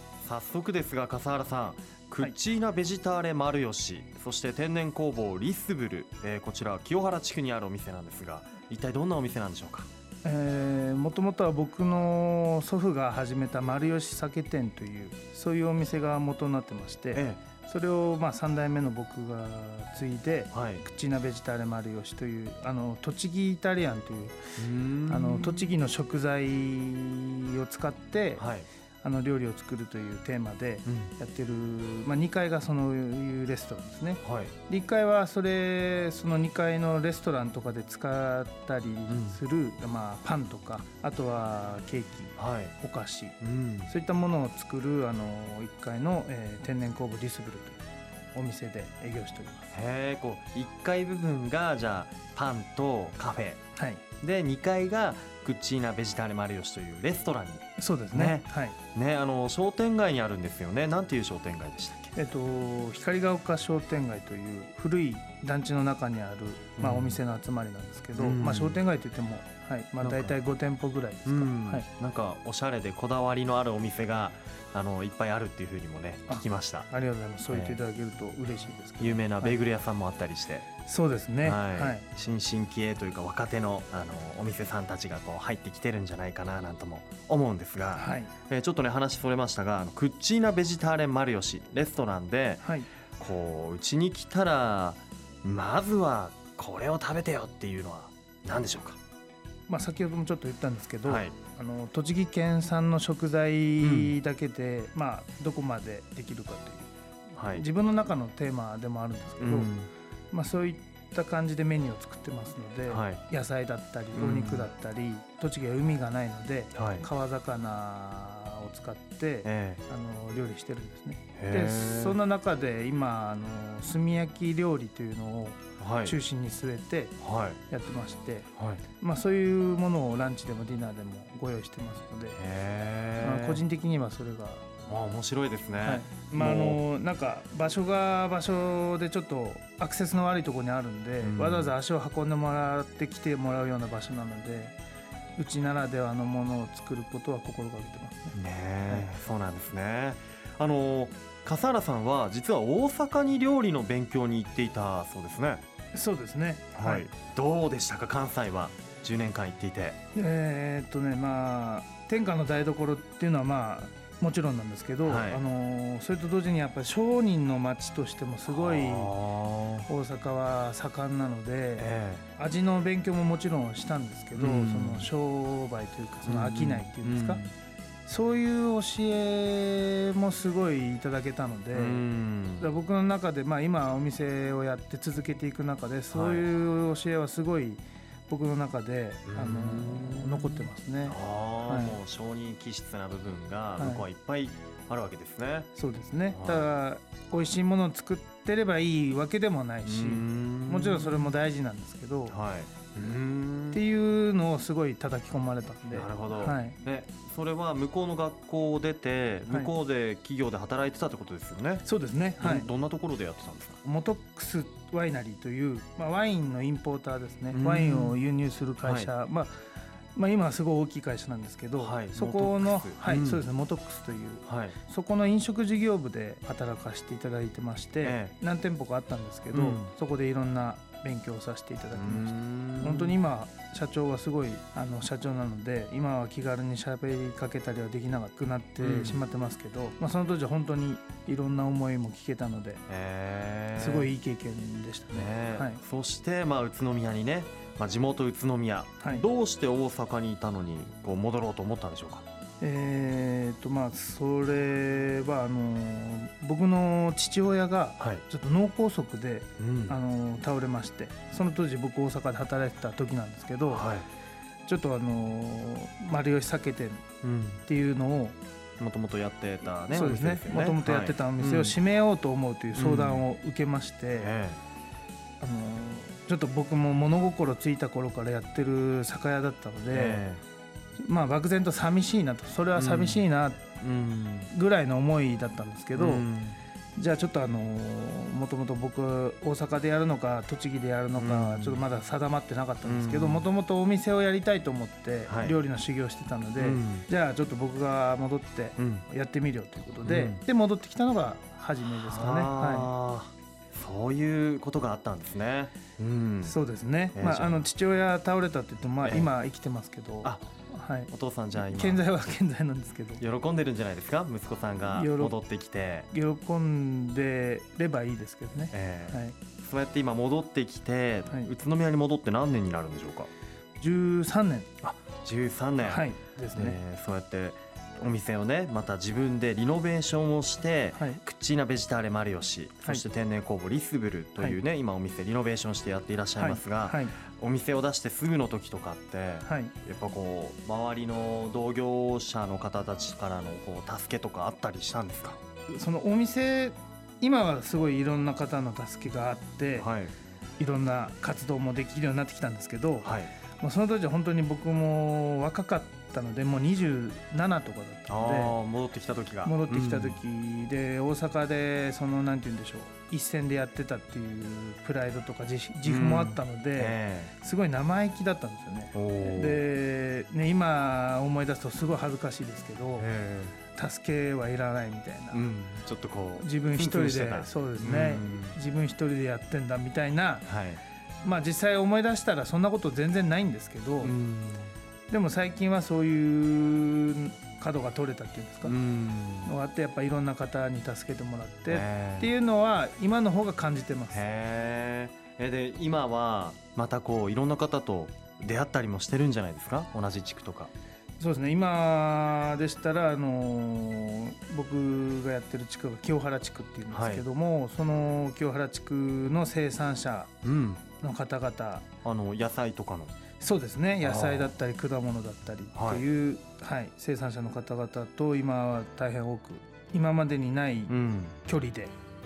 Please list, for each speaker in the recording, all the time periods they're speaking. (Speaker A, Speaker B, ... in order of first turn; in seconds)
Speaker A: 0.2-9.9, 17.1-17.4, 20.5-20.8, 24.6-25.7, 28.4-28.7, 30.9-31.1, 34.2-34.5, 39.1-39.4, 42.4-42.7, 43.4-43.9, 49.7-53.6, 54.2-62.1, 66.8-67.2, 68.2-68.8, 70.0-70.3, 71.2-76.9, 77.5-77.8, 79.0-80.7, 81.4-92.7, 93.2-99.0, 101.0-101.3, 103.8-104.1, 107.3-107.6, 109.4-109.9, 112.9-113.2, 114.1-114.7, 116.7-117.1, 119.4-119.8, 121.3-122.2, 125.8-126.1, 127.2-127.6, 128.6-128.8, 132.4-133.6, 134.9-136.8, 141.2-141.7, 148.3-155.6, 156.8-160.0, 165.0-165.4, 168.5-169.9, 171.8-172.2, 174.3-175.1, 176.2-177.5, 181.7-182.7, 186.1-186.5, 189.3-195.7, 196.3-196.7, 199.8-201.3, 202.3-203.8, 205.9-211.8, 212.4-213.8, 217.5-218.2, 218.8-219.1, 221.8-223.4, 224.4-224.8, 228.0-228.3, 229.5-229.9, 231.9-233.2, 238.8-239.2, 242.9-244.1, 245.1-252.2, 259.6-259.9, 263.7-264.1, 267.2-267.6, 268.8-271.8, 272.7-273.2, 274.2-274.6, 279.9-280.4, 282.8-283.2, 283.8-284.5, 285.9-286.6, 291.1-291.8, 292.8-293.4, 295.3-295.5, 296.6-297.1, 298.8-299.0, 300.0-300.4, 301.9-306.5, 307.1-307.7, 309.0-309.3, 311.1-312.3, 313.2-316.1, 318.7-323.3, 324.8-345.4, 349.8-350.1, 353.0-353.3, 358.1-360.2, 365.8-367.3, 368.9-369.6, 373.0-373.6, 375.3-378.6, 380.4-380.8, 384.0-384.7, 388.6-389.5, 391.7-392.3, 394.1-400.7, 406.9-407.2, 410.4-410.8, 412.0-413.1, 414.0-414.5, 415.7-416.0, 420.9-421.4
Speaker B: 10.2-24.4, 25.1-28.4, 29.0-43.4, 43.9-47.8, 48.3-49.7, 53.8-54.0, 57.8-58.8, 62.1-71.9, 76.3-79.5, 80.8-82.0, 87.9-88.3, 92.6-92.9, 99.7-106.9, 107.5-109.7, 110.3-127.1, 127.7-128.5, 129.0-132.4, 133.2-134.7, 135.8-144.8, 145.4-148.3, 155.9-157.1, 160.1-169.1, 169.9-177.4, 178.1-182.0, 182.6-192.0, 193.8-194.0, 195.8-202.3, 203.7-206.8, 211.8-212.7, 213.8-219.5, 220.1-242.8, 243.8-245.8, 249.0-249.3, 252.6-263.9, 264.6-267.0, 267.7-268.4, 269.9-274.3, 275.4-280.2, 281.0-283.8, 284.5-286.2, 286.9-302.9, 306.4-313.2, 314.9-315.4, 316.1-319.4, 323.8-324.7, 325.8-326.8, 330.9-331.2, 336.4-337.1, 339.4-339.7, 345.7-349.9, 350.6-358.6, 359.4-373.1, 373.7-375.4, 376.4-380.4, 381.2-384.1, 385.1-388.8, 389.4-394.2, 401.2-410.3, 411.0-411.8, 413.4-420.9, 421.4-421.9